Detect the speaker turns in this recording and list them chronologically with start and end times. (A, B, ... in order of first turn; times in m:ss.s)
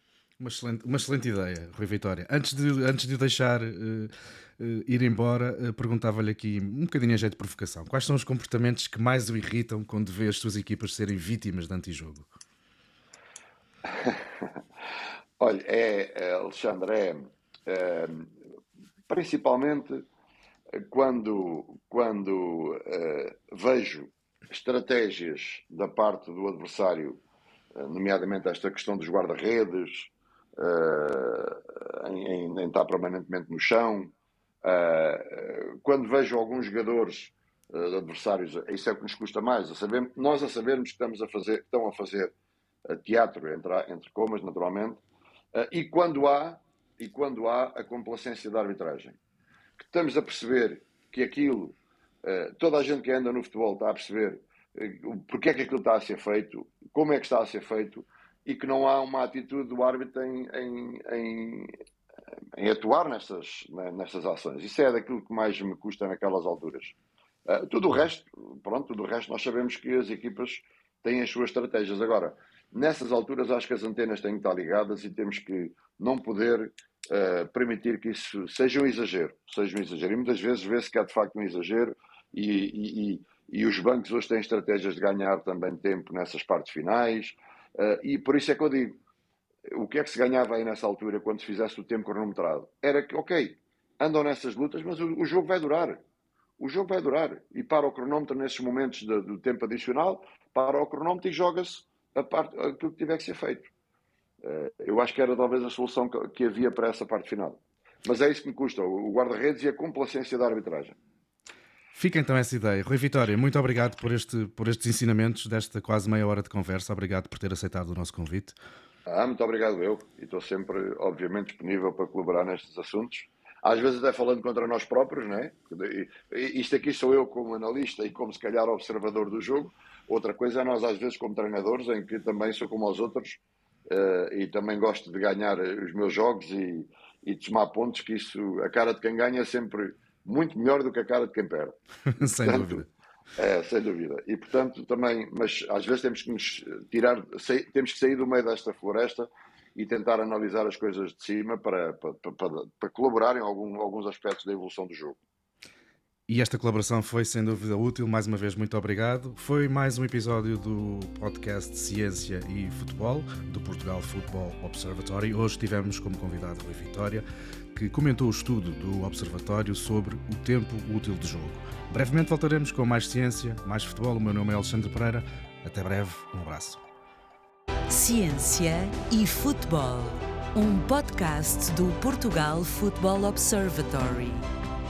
0:00.4-0:12.3 A
0:13.8-0:14.6 B
0:15.4-0:18.3 B
0:19.1-0:20.0 B
0:20.8-0:27.2 B
0:27.7-0:42.3 B
0:42.9-0:45.0 B
0:45.5-0:49.2 B
0:49.8-1:01.8 B
1:02.5-1:29.0 B
1:29.7-1:36.0 B
1:36.6-1:43.7 B
1:44.4-1:51.0 B
1:51.9-1:58.6 A
1:59.0-2:21.8 B
2:22.0-2:22.9 A
2:22.4-2:22.8 B
2:23.4-2:35.2 B
2:36.3-2:56.8 A
2:57.9-3:04.5 C